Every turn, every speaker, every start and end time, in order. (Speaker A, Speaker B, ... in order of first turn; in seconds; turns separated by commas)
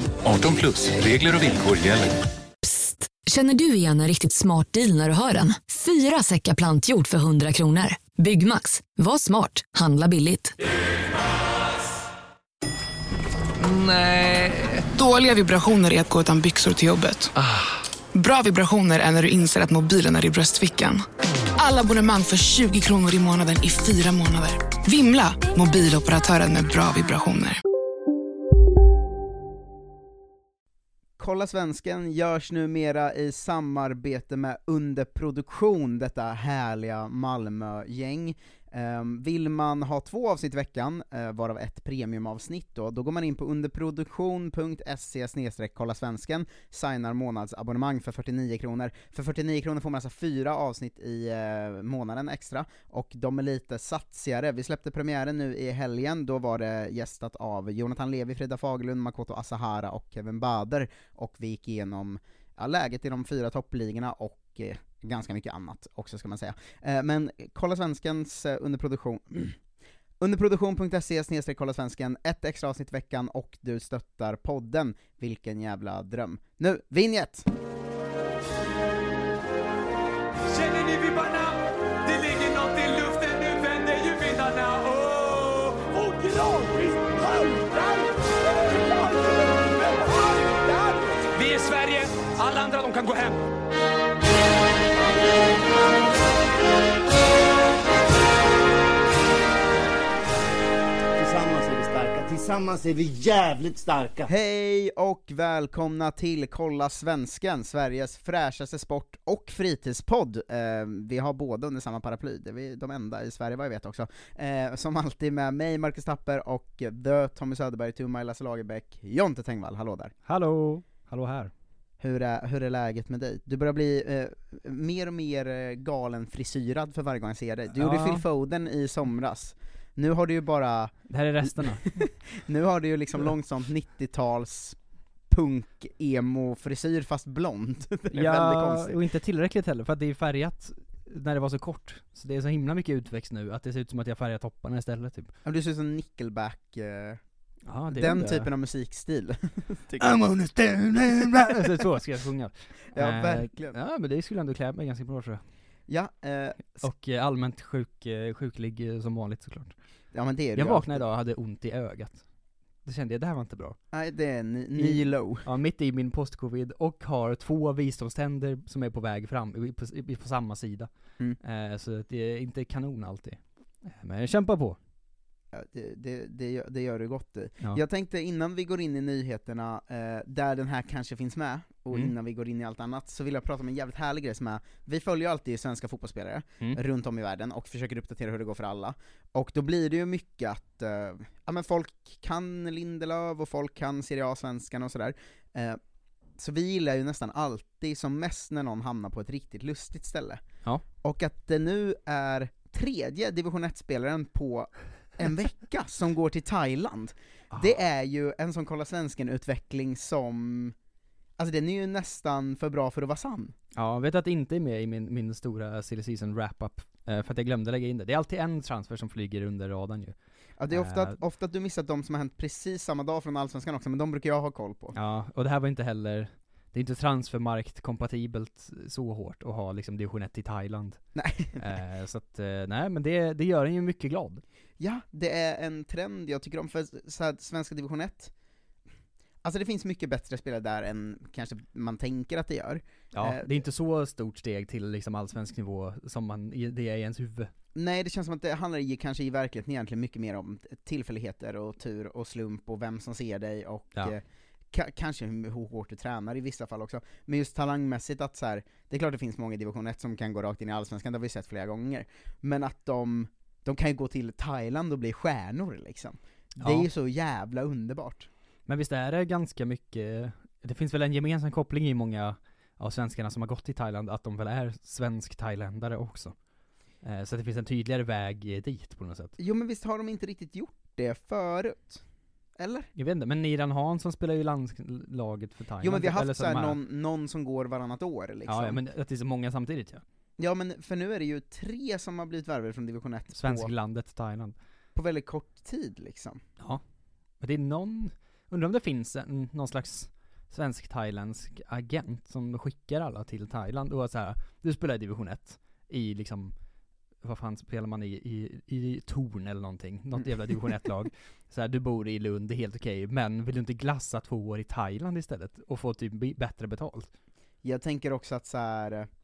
Speaker A: 0.2-2.2, Speaker B: 2.6-10.6, Speaker C: 13.6-17.3, Speaker C: 18.1-27.6, Speaker D: 31.2-69.6, Speaker D: 70.2-77.5, Speaker E: 80.5-88.1, Speaker E: 88.6-93.4, Speaker F: 101.2-104.3, Speaker D: 104.3-120.1, Speaker G: 120.2-121.5, Speaker D: 122.0-139.0, Speaker G: 127.8-128.2, Speaker G: 131.1-132.1, Speaker G: 138.1-145.3, Speaker D: 145.4-147.2, Speaker G: 147.7-148.5, Speaker D: 147.9-150.3, Speaker G: 150.0-155.4, Speaker D: 152.9-153.8, Speaker D: 155.9-156.9, Speaker G: 156.8-159.8, Speaker D: 160.1-161.0, Speaker G: 160.5-162.2, Speaker G: 162.8-163.8, Speaker D: 163.9-165.4, Speaker G: 164.8-174.8, Speaker D: 175.5-195.8, Speaker D: 196.4-200.4, Speaker D: 201.0-210.8, Speaker D: 211.4-213.5, Speaker G: 213.8-220.2, Speaker D: 220.6-224.9, Speaker G: 220.7-221.2, Speaker G: 224.9-231.0, Speaker D: 231.1-231.7, Speaker G: 231.6-234.4, Speaker D: 234.8-238.3, Speaker D: 239.4-243.5, Speaker G: 243.1-247.5, Speaker D: 247.7-268.3, Speaker G: 266.6-266.9, Speaker G: 268.7-276.4, Speaker G: 277.0-279.4, Speaker D: 279.4-282.0, Speaker D: 282.6-282.9, Speaker G: 283.0-286.8, Speaker D: 285.8-288.8, Speaker G: 288.5-290.0, Speaker D: 290.4-293.7, Speaker G: 293.3-294.6, Speaker D: 294.9-296.4, Speaker G: 297.4-306.6, Speaker G: 307.2-317.1, Speaker D: 310.2-310.7, Speaker D: 317.6-319.1